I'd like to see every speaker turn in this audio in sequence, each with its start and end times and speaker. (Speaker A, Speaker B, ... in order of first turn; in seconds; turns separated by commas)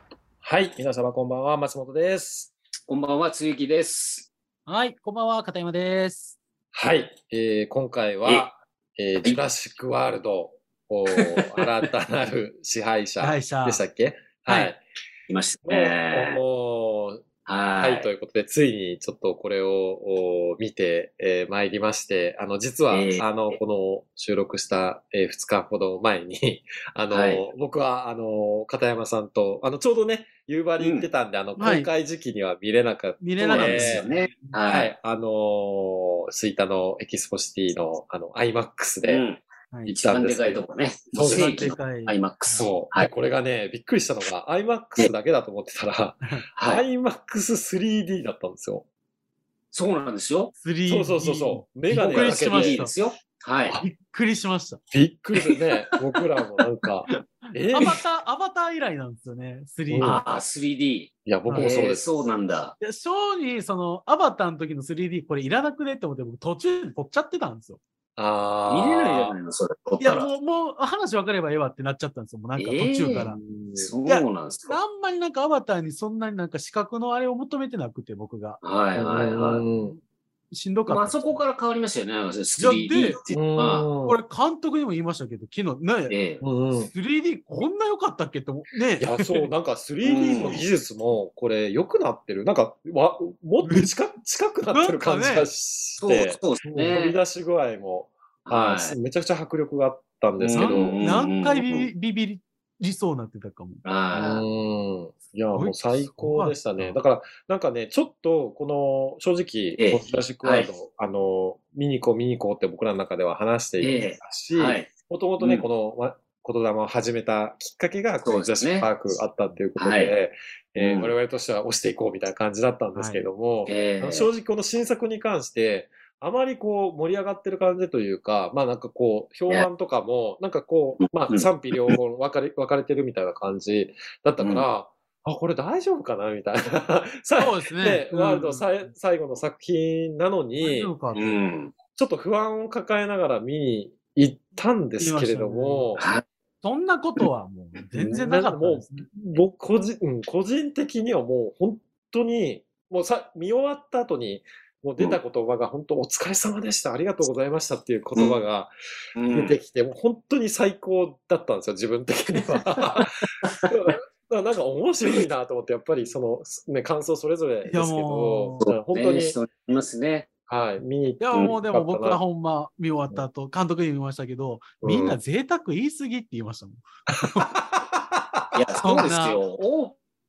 Speaker A: 0.4-2.5, Speaker B: 2.9-4.3, Speaker C: 4.7-6.3, Speaker A: 6.7-14.8, Speaker B: 11.1-11.5, Speaker C: 13.2-13.8, Speaker C: 14.5-14.7, Speaker B: 15.3-16.4, Speaker A: 15.6-17.2, Speaker B: 17.4-18.1, Speaker A: 17.8-34.0, Speaker B: 22.9-23.6, Speaker B: 27.1-27.4, Speaker B: 30.8-31.1, Speaker C: 31.6-31.9, Speaker C: 33.2-34.5, Speaker B: 33.4-34.9, Speaker A: 34.7-39.2, Speaker B: 39.1-43.1, Speaker A: 39.9-41.7, Speaker C: 41.3-42.6, Speaker A: 42.5-48.8, Speaker B: 46.5-46.8, Speaker B: 49.7-50.5, Speaker C: 50.6-52.9, Speaker A: 50.9-52.8, Speaker B: 52.1-53.8, Speaker C: 53.8-54.8, Speaker A: 54.9-58.0, Speaker C: 57.7-60.3, Speaker A: 59.9-60.2, Speaker B: 60.0-62.7, Speaker A: 61.2-62.1, Speaker C: 62.8-67.8, Speaker A: 68.2-69.3, Speaker B: 68.7-70.3, Speaker C: 70.0-73.4, Speaker B: 72.5-74.8, Speaker A: 73.2-73.9, Speaker C: 74.1-78.6, Speaker B: 78.6-79.6, Speaker A: 79.0-80.0, Speaker C: 80.5-81.4, Speaker B: 80.9-83.9, Speaker C: 82.6-83.2, Speaker A: 83.3-84.2, Speaker C: 84.1-86.2, Speaker B: 86.1-86.4, Speaker A: 86.4-86.9, Speaker C: 86.8-89.5, Speaker A: 89.0-101.0, Speaker B: 90.0-90.6, Speaker C: 93.6-93.9, Speaker C: 94.7-95.5, Speaker B: 96.0-97.2, Speaker B: 98.5-99.0, Speaker B: 100.4-101.9, Speaker C: 100.5-103.8, Speaker B: 103.8-104.4, Speaker A: 104.1-140.9, Speaker C: 105.5-107.0, Speaker B: 109.8-110.7, Speaker B: 113.8-114.9, Speaker B: 115.4-115.7, Speaker B: 118.2-118.9, Speaker B: 119.8-120.2, Speaker B: 120.8-121.1, Speaker C: 122.9-123.2, Speaker B: 123.7-124.3, Speaker B: 131.0-131.9, Speaker B: 134.4-134.7, Speaker C: 137.4-138.6, Speaker C: 140.6-141.4, Speaker B: 141.1-141.8, Speaker A: 141.9-146.1, Speaker C: 145.0-145.9, Speaker B: 146.0-146.2, Speaker C: 146.6-149.1, Speaker A: 148.0-158.7, Speaker B: 159.1-159.6, Speaker A: 159.3-163.1, Speaker B: 162.9-163.7, Speaker A: 163.7-169.3, Speaker C: 167.7-168.6, Speaker B: 168.6-170.3, Speaker A: 170.5-172.2, Speaker C: 171.2-177.5, Speaker A: 174.8-175.2, Speaker A: 177.1-179.1, Speaker B: 178.5-180.0, Speaker C: 178.8-179.4